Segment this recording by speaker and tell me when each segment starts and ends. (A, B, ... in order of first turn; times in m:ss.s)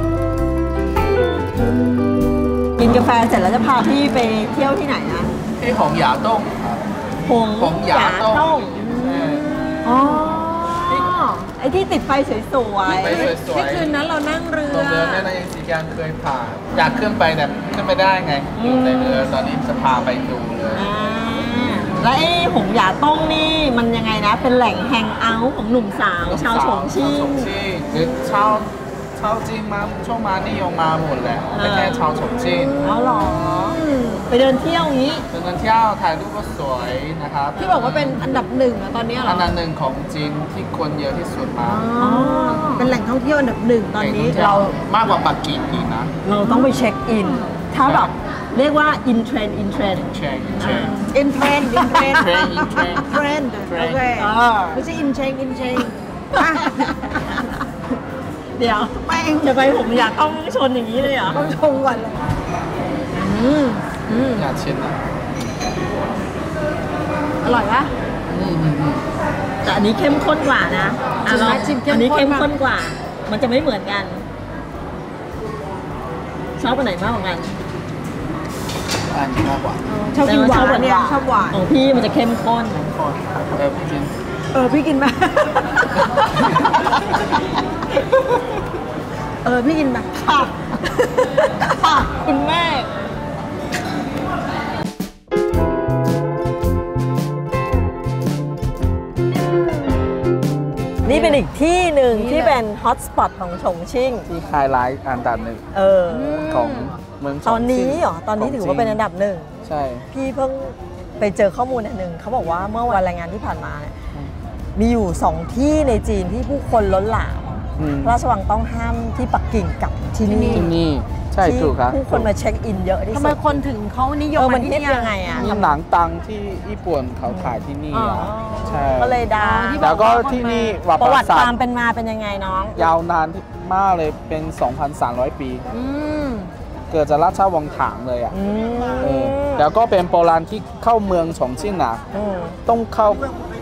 0:02.8-0:05.3 A
0:05.6-0:07.0 B
0:07.2-0:08.8 A
0:07.6-0:09.4 B
0:08.8-0:11.5 C
0:09.8-0:13.3 A
0:12.8-0:14.0 B
0:13.0-0:15.3 C
0:14.7-0:20.9 B
0:18.6-0:19.3 A
0:20.8-0:27.5 A
0:26.2-0:32.8 B
0:31.5-0:32.2 A
0:32.3-0:34.3 C
0:32.8-0:35.2 A
0:35.3-0:38.5 B
0:37.6-0:39.5 C
0:39.2-0:41.9 B
0:41.6-0:44.7 C
0:42.0-0:43.0 A
0:44.0-0:46.1 B
0:44.4-0:44.8 A
0:46.2-0:51.0 A
0:46.4-0:46.7 C
0:47.2-0:47.6 C
0:47.9-0:48.1 B
0:50.1-0:51.0 B
0:51.0-0:57.5 C
0:51.8-0:54.0 B
0:54.2-0:54.8 A
0:56.3-0:57.5 A
0:58.6-1:01.4 A
0:59.0-0:59.8 C
1:01.2-1:02.2 C
1:03.1-1:04.5 C
1:04.2-1:05.0 B
1:07.4-1:07.9 C
1:08.3-1:09.0 B
1:09.6-1:14.2 A
1:11.2-1:12.5 C
1:16.6-1:17.6 A
1:19.1-1:19.9 B
1:19.9-1:21.6 C
1:20.2-1:22.8 A
1:22.7-1:24.1 B
1:24.5-1:25.9 C
1:26.4-1:27.0 B
1:29.4-1:30.5 C
1:31.4-1:32.9 A
1:41.0-1:44.3 A
1:41.0-1:41.4 C
1:42.1-1:42.6 C
1:44.3-1:45.6 B
1:45.7-1:46.5 A
1:46.1-1:47.0 C
1:46.5-1:49.0 B
1:47.4-1:54.0 A
1:49.6-1:50.0 B
1:54.8-2:00.8 A
1:57.8-1:58.2 B
2:00.3-2:00.7 C
2:00.5-2:02.3 B
2:01.4-2:03.6 A
2:03.1-2:05.6 C
2:04.4-2:05.8 A
2:05.4-2:09.2 B
2:07.3-2:10.1 A
2:07.9-2:08.3 C
2:09.4-2:10.8 C
2:09.8-2:11.5 B
2:11.0-2:12.9 A
2:12.8-2:15.6 B
2:15.7-2:16.5 C
2:16.9-2:18.4 B
2:18.3-2:19.7 A
2:19.0-2:22.0 B
2:22.1-2:22.6 A
2:22.6-2:23.4 B